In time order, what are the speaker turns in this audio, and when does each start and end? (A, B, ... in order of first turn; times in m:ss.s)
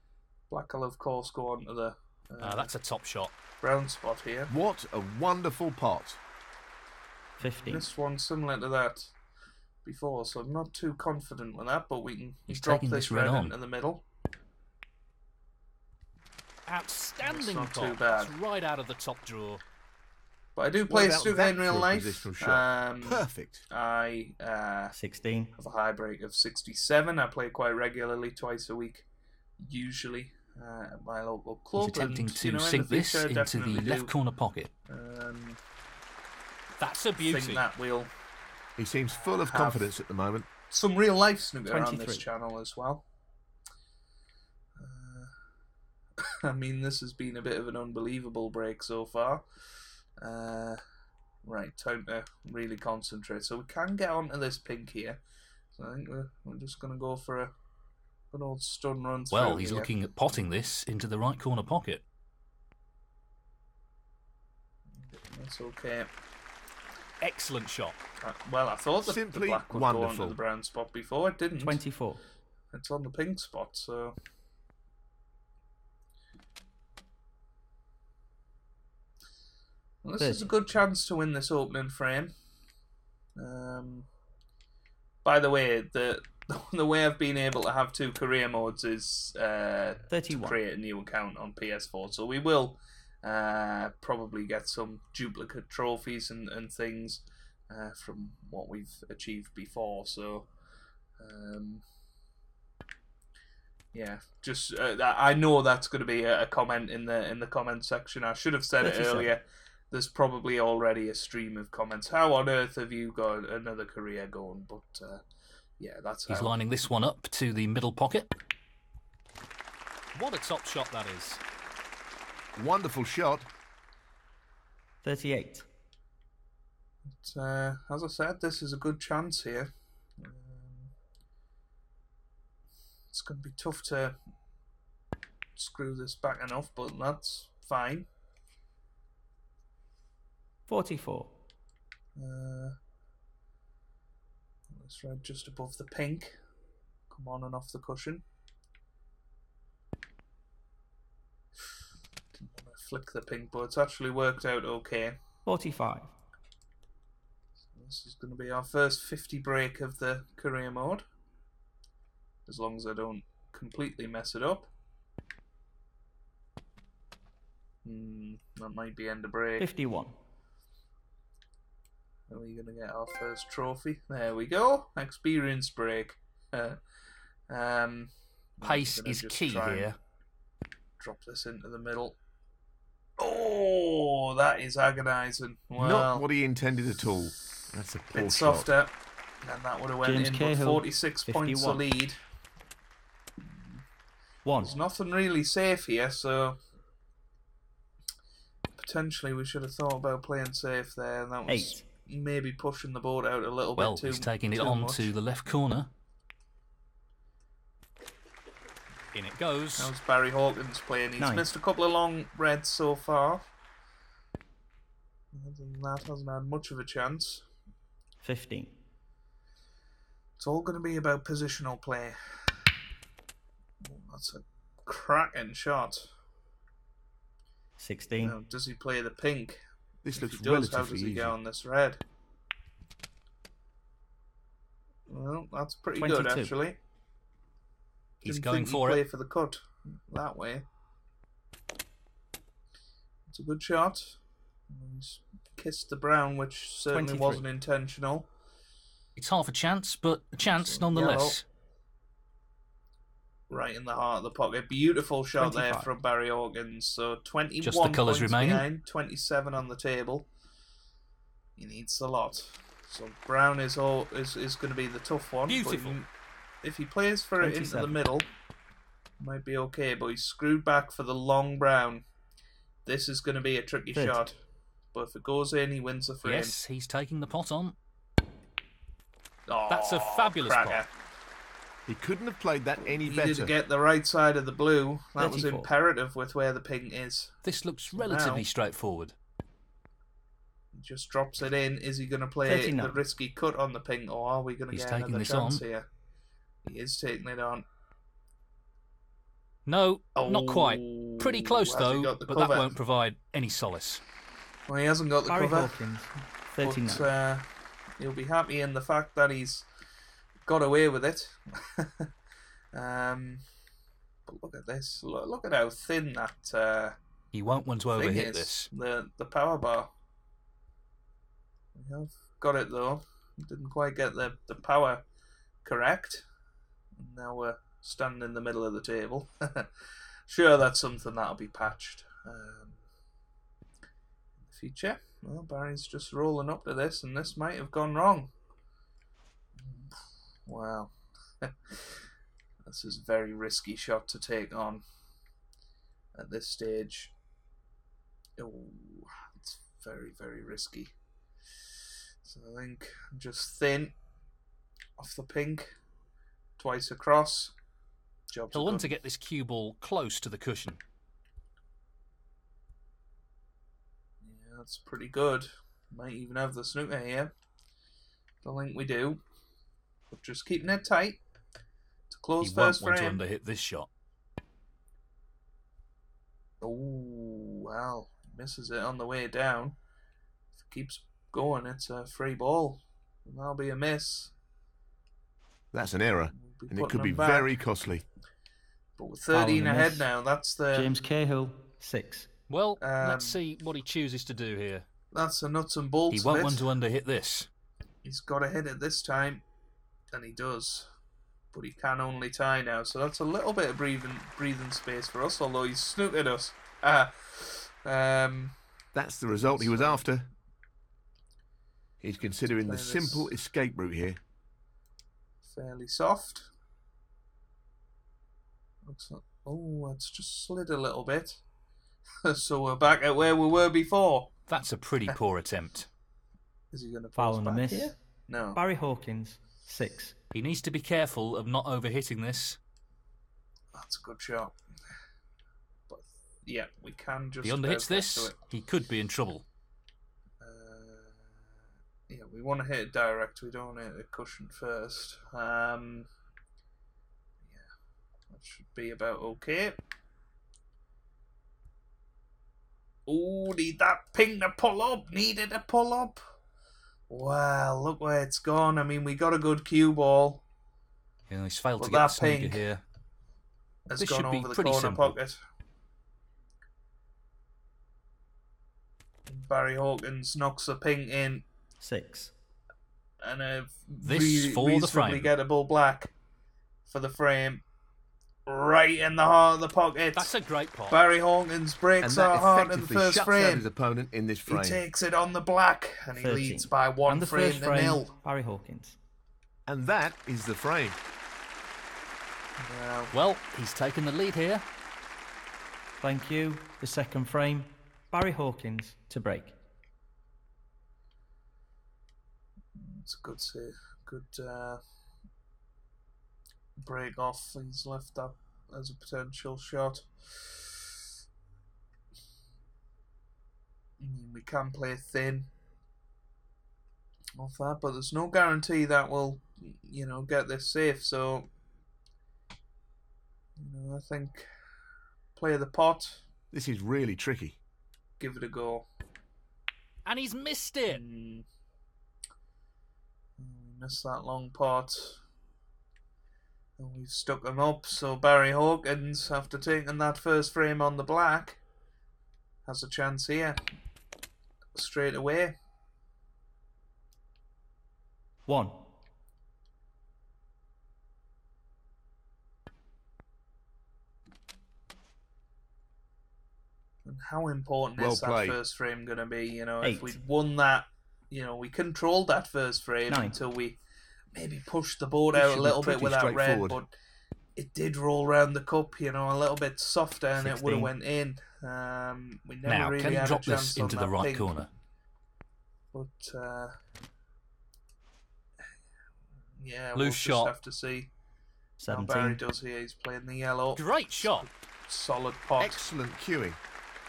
0:00.5-0:02.7 A
0:02.4-0:03.3 B
0:03.6-0:04.5 A
0:04.5-0:06.2 C
0:07.4-0:07.9 D
0:07.7-0:09.1 A
0:09.8-0:14.0 A
0:12.5-0:13.6 B
0:16.7-0:19.6 B
0:17.2-0:18.3 A
0:20.6-0:24.9 A
0:20.9-0:23.7 C
0:24.9-0:25.5 D
0:25.6-0:29.1 A
0:29.6-0:34.1 A
0:31.8-0:34.7 B
0:34.9-0:35.6 A
0:36.8-0:37.6 B
0:37.2-0:38.1 A
0:38.8-0:40.5 C
0:39.1-0:39.9 A
0:40.7-0:43.0 A
0:41.7-0:42.3 D
0:44.8-0:45.3 A
0:46.2-0:49.4 A
0:50.2-0:50.8 A
0:51.4-0:55.2 A
0:55.8-0:57.5 A
0:58.3-0:59.9 A
0:59.3-1:02.0 B
1:05.0-1:06.1 A
1:07.2-1:08.0 B
1:08.2-1:11.8 A
1:09.0-1:10.4 C
1:11.6-1:12.2 D
1:12.7-1:14.2 A
1:20.0-1:22.3 A
1:20.2-1:20.5 D
1:23.4-1:24.1 A
1:25.2-1:40.5 A
1:30.1-1:30.6 D
1:41.2-1:41.8 A
1:43.9-1:55.2 A
1:48.8-1:49.3 D
1:55.8-1:56.6 A
1:56.3-1:58.3 B
2:00.1-2:01.4 B
2:02.6-2:03.5 C
2:05.0-2:05.7 D
2:07.2-2:10.9 A
2:13.1-2:14.2 A
2:15.6-2:18.1 A
2:20.7-2:21.3 D
2:22.2-2:22.8 A
2:24.7-2:26.4 A
2:27.1-2:28.2 A
2:32.3-2:35.2 A
2:35.5-2:36.1 D
2:37.8-2:41.0 A
2:42.5-2:44.7 A
2:47.8-2:49.7 A
2:49.6-2:50.2 D
2:52.3-2:56.8 A
2:57.5-2:59.9 A
2:58.6-3:00.0 B
3:01.0-3:02.2 A
3:03.2-3:06.2 A
3:05.8-3:08.7 C
3:08.1-3:12.2 A
3:10.0-3:11.8 D
3:14.4-3:14.7 D
3:14.6-3:16.6 A
3:18.8-3:25.1 A
3:21.5-3:21.8 D
3:23.8-3:25.9 B
3:29.1-3:29.9 B
3:29.8-3:33.4 A
3:31.2-3:31.5 D
3:35.3-3:37.4 A
3:38.2-3:38.8 D
3:40.4-3:42.6 A
3:43.8-3:46.1 A
3:47.8-3:48.4 D
3:48.2-3:49.6 A
3:50.0-3:51.4 C
3:50.1-3:52.0 A
3:55.1-3:56.8 A
3:56.0-3:56.6 D
3:58.2-3:59.0 B
3:58.3-4:00.7 A
4:03.3-4:08.3 A
4:06.9-4:07.4 D
4:09.2-4:11.4 B
4:10.7-4:11.4 A
4:13.5-4:20.3 A
4:15.4-4:15.9 D
4:17.6-4:18.6 B
4:21.6-4:26.1 A
4:25.5-4:26.0 B
4:26.6-4:28.3 A
4:27.4-4:28.0 D
4:29.2-4:32.0 A
4:32.8-4:34.4 A
4:33.9-4:34.2 D
4:34.9-4:36.6 A
4:36.2-4:37.8 B
4:39.5-4:40.9 A
4:39.7-4:40.8 B
4:41.9-4:43.5 C
4:43.0-4:47.4 A
4:45.2-4:45.7 D
4:47.4-4:49.1 B
4:47.9-4:48.4 A
4:50.8-4:55.9 A
4:52.5-4:53.0 D
4:54.7-4:55.6 B
4:56.6-4:57.6 A
4:59.7-5:04.0 B
5:00.2-5:02.7 A
5:04.7-5:05.8 A
5:05.3-5:07.1 D
5:06.6-5:07.5 A
5:08.0-5:09.7 A
5:10.5-5:12.1 A
5:12.7-5:13.4 A
5:14.3-5:17.0 A
5:17.3-5:18.7 B
5:17.9-5:19.9 A
5:21.8-5:25.0 A
5:25.6-5:26.2 A
5:27.0-5:29.7 A
5:30.3-5:32.8 A
5:34.4-5:38.3 A
5:39.6-5:39.9 A
5:40.5-5:41.8 A
5:42.7-5:44.8 A
5:46.2-5:47.1 A
5:48.4-5:50.9 A
5:52.2-5:53.9 A
5:55.0-5:55.7 A
5:56.6-5:57.5 A
5:58.3-5:58.9 A
5:58.5-6:00.8 B
6:04.2-6:07.3 A
6:08.4-6:09.2 A
6:10.1-6:11.2 A
6:12.1-6:13.2 A
6:12.4-6:13.9 B
6:16.6-6:19.8 A
6:20.6-6:24.3 A
6:25.7-6:28.0 C
6:26.3-6:27.6 A
6:29.0-6:30.9 A
6:29.3-6:30.1 D
6:30.7-6:32.3 D
6:32.5-6:34.8 B
6:32.8-6:33.4 A
6:35.1-6:36.6 A
6:36.1-6:37.5 B
6:38.0-6:39.4 A
6:40.1-6:40.9 A
6:41.5-6:48.6 A
6:48.9-6:50.3 C
6:49.3-6:50.1 A
6:52.0-6:54.2 C
6:52.6-6:53.3 A
6:55.4-6:56.5 A
6:58.8-7:01.4 A
7:02.2-7:04.3 A
7:04.5-7:05.9 B
7:06.7-7:08.6 A
7:07.2-7:08.0 D
7:08.6-7:10.2 D
7:10.3-7:12.6 B
7:13.7-7:14.6 A
7:15.9-7:18.4 A
7:17.4-7:19.4 B
7:20.4-7:21.2 A
7:22.1-7:26.1 A
7:28.3-7:29.8 A
7:33.1-7:36.2 A
7:37.1-7:40.4 A
7:41.3-7:42.8 B
7:41.8-7:42.6 A
7:43.9-7:45.4 A
7:44.0-7:45.2 B
7:49.3-7:51.4 A
7:51.8-7:52.3 D
7:53.2-7:56.1 A
7:54.0-7:55.3 B
7:56.9-7:57.6 A
7:58.5-8:00.3 A
8:00.2-8:01.0 B
8:00.9-8:03.7 A
8:02.0-8:04.8 C
8:04.5-8:08.1 A
8:06.2-8:09.0 D
8:09.7-8:11.0 C
8:12.6-8:13.1 A
8:13.1-8:14.6 B
8:16.0-8:19.6 D
8:22.8-8:24.8 A
8:26.8-8:30.9 A
8:34.0-8:35.5 A
8:37.4-8:41.5 A
8:43.6-8:44.5 A
8:45.4-8:46.2 A
8:46.5-8:47.6 C
8:48.2-8:48.9 A
8:50.0-8:51.0 B
8:50.9-8:51.5 A
8:53.4-8:55.2 A
8:56.8-9:01.6 A
9:02.7-9:03.6 A
9:04.8-9:05.6 A
9:08.5-9:08.8 D
9:17.0-9:23.8 A
9:18.0-9:18.6 C
9:19.8-9:20.2 D
9:23.1-9:23.4 D
9:24.3-9:26.9 A
9:25.3-9:26.8 C
9:27.6-9:34.5 A
9:30.4-9:30.9 D
9:32.6-9:34.7 B
9:35.9-9:36.8 A
9:39.6-9:41.1 A
9:40.0-9:40.5 B
9:41.8-9:42.4 D
9:41.9-9:45.8 A
9:43.8-9:44.5 B
9:45.6-9:46.6 C